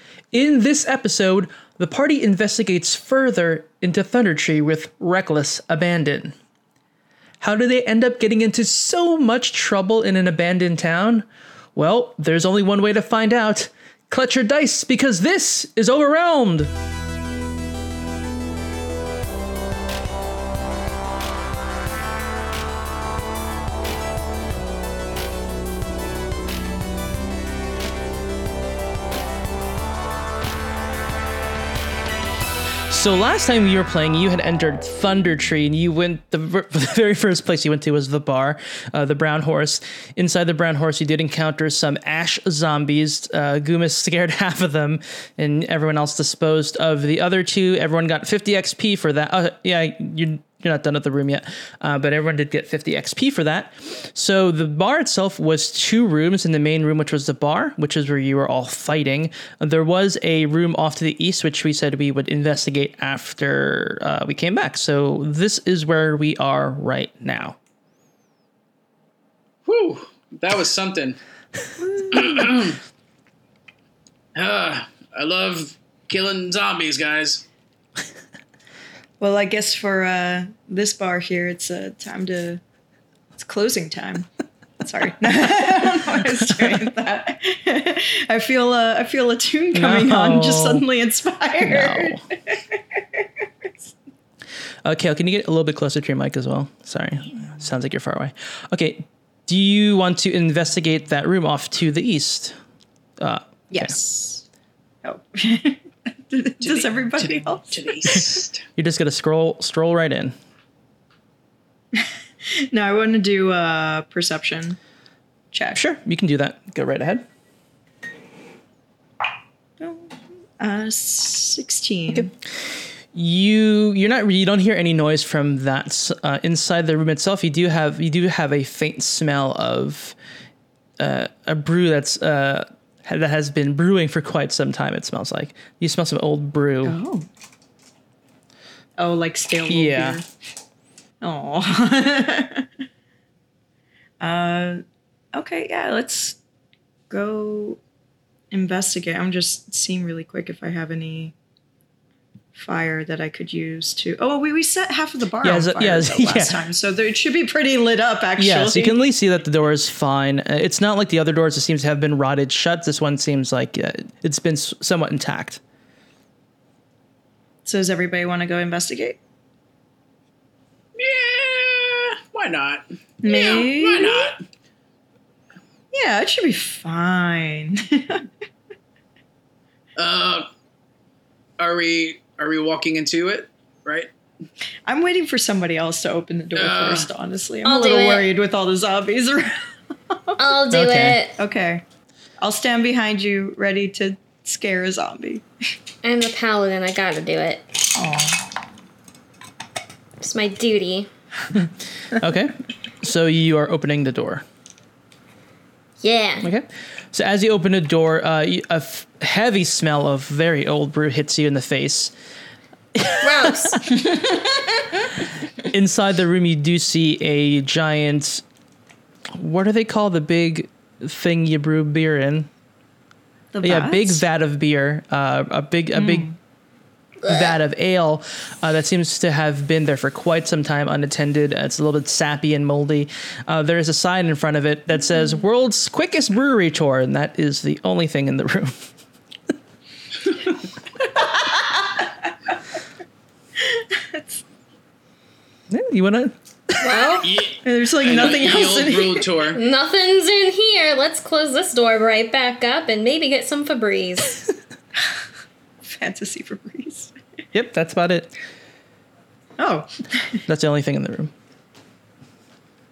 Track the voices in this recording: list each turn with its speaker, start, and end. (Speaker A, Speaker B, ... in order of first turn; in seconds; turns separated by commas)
Speaker A: 0.3-6.3, Speaker A: 7.4-16.7, Speaker A: 32.9-67.6, Speaker B: 69.7-71.2, Speaker B: 72.1-72.8, Speaker B: 74.3-77.5, Speaker C: 79.2-82.6, Speaker C: 83.4-84.3, Speaker C: 84.8-93.9, Speaker A: 89.7-90.8, Speaker A: 91.6-92.2, Speaker A: 94.8-102.6, Speaker A: 103.2-104.0, Speaker C: 103.7-104.4, Speaker C: 105.0-108.2, Speaker B: 106.6-108.6, Speaker A: 108.1-110.3, Speaker C: 112.0-114.8, Speaker C: 115.5-115.8, Speaker A: 115.7-117.2, Speaker C: 119.8-122.3, Speaker A: 123.1-130.2, Speaker A: 131.0-137.0, Speaker C: 136.8-137.3, Speaker C: 139.0-140.2, Speaker A: 139.7-140.2, Speaker C: 141.2-142.7, Speaker C: 144.2-144.8, Speaker C: 145.3-146.4, Speaker C: 147.1-147.8, Speaker C: 148.5-151.3, Speaker C: 152.6-159.0, Speaker A: 155.4-156.6, Speaker A: 158.4-165.6, Speaker C: 167.7-169.2, Speaker B: 171.0-174.4, Speaker C: 173.2-174.3, Speaker C: 175.9-178.3, Speaker B: 180.0-180.5, Speaker B: 181.6-184.1, Speaker C: 184.9-190.4, Speaker B: 186.6-187.1, Speaker D: 187.6-188.3, Speaker D: 190.4-191.4, Speaker A: 190.7-191.2, Speaker C: 191.4-191.8, Speaker C: 192.4-195.4, Speaker D: 196.0-197.8, Speaker C: 198.0-198.4, Speaker D: 200.2-201.1, Speaker A: 202.1-204.4, Speaker D: 206.0-206.5, Speaker A: 206.4-212.1, Speaker A: 213.0-213.8, Speaker D: 213.2-213.8, Speaker C: 214.1-214.6, Speaker A: 215.7-218.4, Speaker A: 219.3-222.5, Speaker C: 223.5-224.2, Speaker A: 223.6-226.3, Speaker C: 225.9-226.4, Speaker D: 227.2-227.5, Speaker A: 227.2-238.8, Speaker C: 243.6-244.4, Speaker A: 245.7-247.2, Speaker D: 246.8-247.3, Speaker B: 247.2-249.6, Speaker C: 247.6-249.3, Speaker D: 249.5-254.4, Speaker C: 255.8-257.1, Speaker A: 257.5-258.3, Speaker C: 259.6-260.4, Speaker A: 260.5-261.3